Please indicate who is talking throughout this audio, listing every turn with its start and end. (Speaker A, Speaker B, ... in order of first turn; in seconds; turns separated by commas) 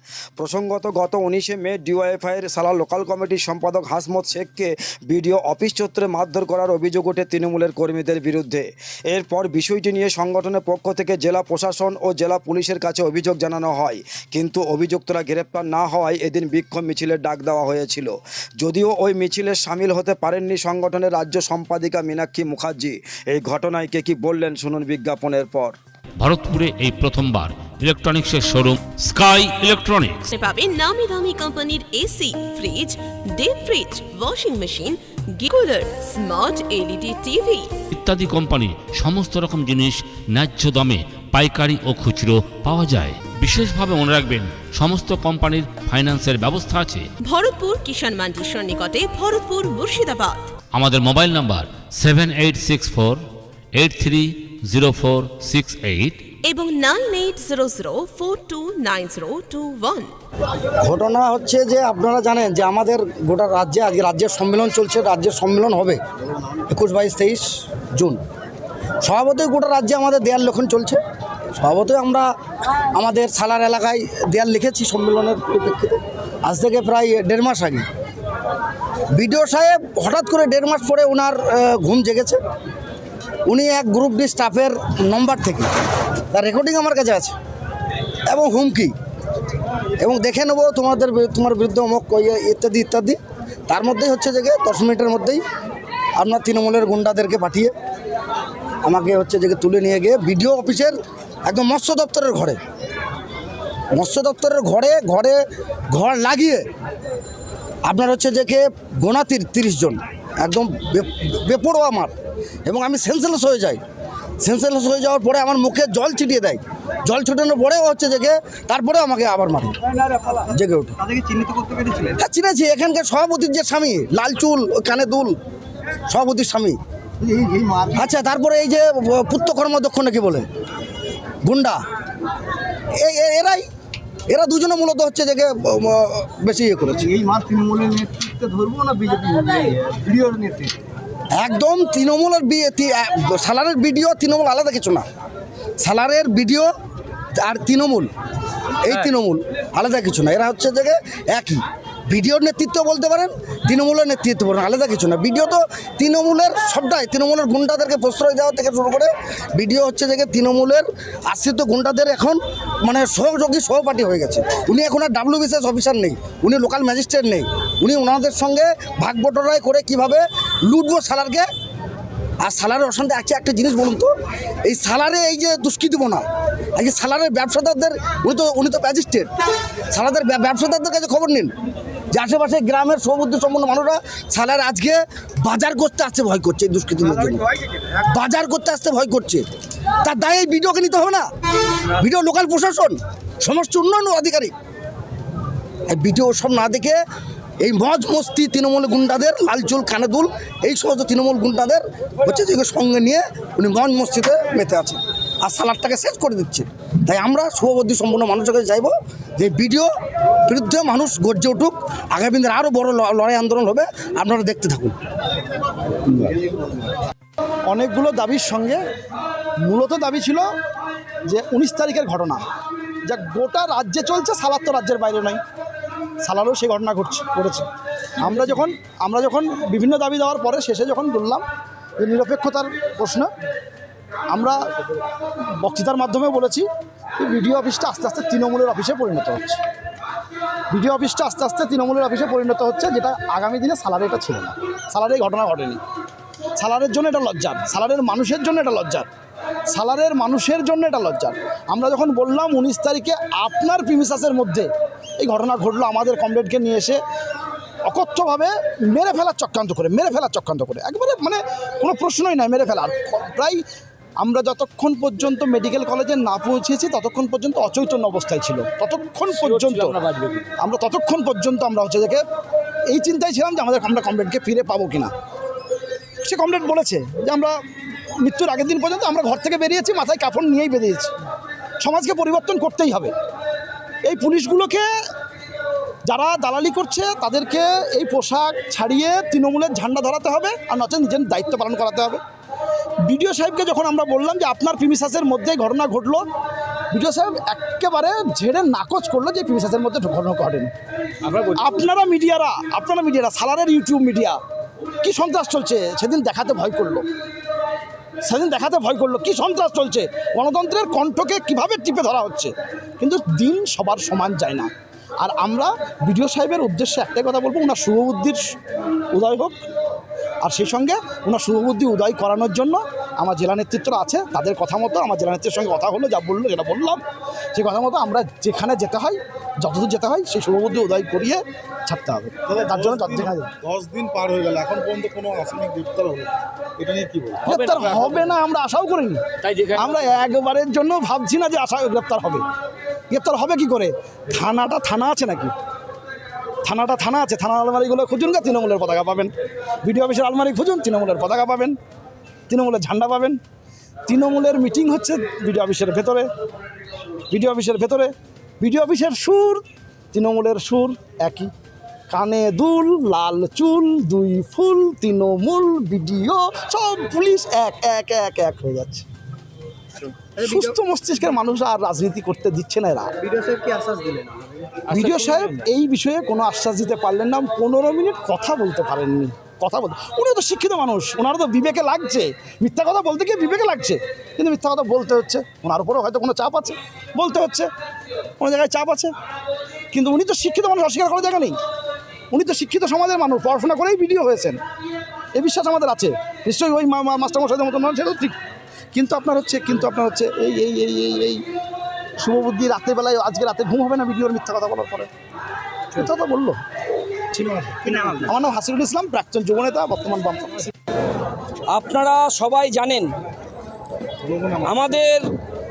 Speaker A: 0.4-25.7, Speaker B: 26.2-30.2, Speaker C: 30.3-37.7, Speaker B: 37.9-39.8, Speaker A: 39.7-39.9, Speaker B: 40.3-47.0, Speaker A: 45.0-45.4, Speaker A: 46.1-46.4, Speaker C: 47.2-50.5, Speaker B: 50.7-52.8, Speaker A: 52.5-53.1, Speaker B: 53.8-56.2, Speaker A: 54.9-55.2, Speaker C: 56.4-60.1, Speaker D: 60.8-66.0, Speaker D: 66.7-67.4, Speaker D: 69.0-71.0, Speaker D: 71.5-72.3, Speaker D: 72.9-77.8, Speaker D: 79.1-82.4, Speaker D: 83.5-85.7, Speaker D: 86.3-87.3, Speaker D: 88.3-88.9, Speaker D: 90.0-93.2, Speaker D: 93.7-95.4, Speaker D: 96.2-97.7, Speaker D: 98.8-100.9, Speaker D: 101.5-102.6, Speaker D: 103.9-105.4, Speaker D: 105.9-106.6, Speaker D: 107.8-112.1, Speaker D: 112.7-113.8, Speaker D: 114.4-119.8, Speaker E: 120.0-120.5, Speaker D: 120.5-121.0, Speaker E: 121.0-122.2, Speaker D: 122.2-125.3, Speaker D: 126.1-126.8, Speaker E: 127.2-128.0, Speaker D: 127.9-130.4, Speaker D: 131.4-131.8, Speaker D: 133.0-133.6, Speaker D: 134.3-137.1, Speaker E: 137.1-140.8, Speaker D: 141.3-145.0, Speaker D: 145.8-146.7, Speaker D: 147.4-148.1, Speaker D: 148.8-171.4, Speaker D: 172.4-174.1, Speaker D: 174.6-176.2, Speaker D: 176.8-179.3, Speaker D: 179.9-181.5, Speaker D: 182.1-189.4, Speaker D: 190.0-191.2, Speaker D: 191.8-194.5, Speaker D: 195.9-197.0, Speaker D: 197.6-209.9, Speaker D: 210.5-214.9, Speaker F: 217.7-218.8, Speaker F: 219.6-220.4, Speaker F: 221.2-222.4, Speaker F: 223.0-225.4, Speaker F: 226.2-227.7, Speaker F: 228.2-231.4, Speaker F: 232.0-233.2, Speaker F: 234.3-234.6, Speaker F: 235.6-236.7, Speaker F: 237.2-239.6, Speaker F: 240.7-245.8, Speaker F: 246.6-249.1, Speaker F: 249.7-254.7, Speaker F: 255.2-257.0, Speaker F: 257.9-263.6, Speaker F: 264.2-272.2, Speaker F: 272.9-275.1, Speaker F: 276.2-277.5, Speaker F: 278.2-281.1, Speaker F: 281.8-283.1, Speaker F: 284.0-284.8, Speaker F: 286.0-292.2, Speaker F: 293.0-296.2, Speaker F: 296.9-300.7, Speaker F: 301.3-304.4, Speaker F: 305.0-307.1, Speaker F: 308.2-318.4, Speaker F: 319.1-319.6, Speaker F: 320.4-327.0, Speaker F: 327.5-333.5, Speaker G: 333.8-336.0, Speaker G: 336.9-337.3, Speaker F: 337.4-342.4, Speaker B: 337.5-338.0, Speaker F: 343.1-345.5, Speaker F: 346.6-349.3, Speaker F: 349.8-351.8, Speaker F: 352.5-353.4, Speaker F: 354.1-356.3, Speaker F: 357.3-361.5, Speaker F: 362.1-369.1, Speaker F: 370.4-373.1, Speaker E: 370.4-370.8, Speaker E: 373.2-375.3, Speaker F: 374.9-387.7, Speaker F: 388.4-389.1, Speaker F: 389.9-391.6, Speaker F: 392.3-394.6, Speaker F: 395.3-398.4, Speaker F: 398.9-401.4, Speaker F: 402.2-405.1, Speaker F: 405.9-406.6, Speaker F: 407.3-410.7, Speaker H: 411.7-413.1, Speaker H: 414.6-415.2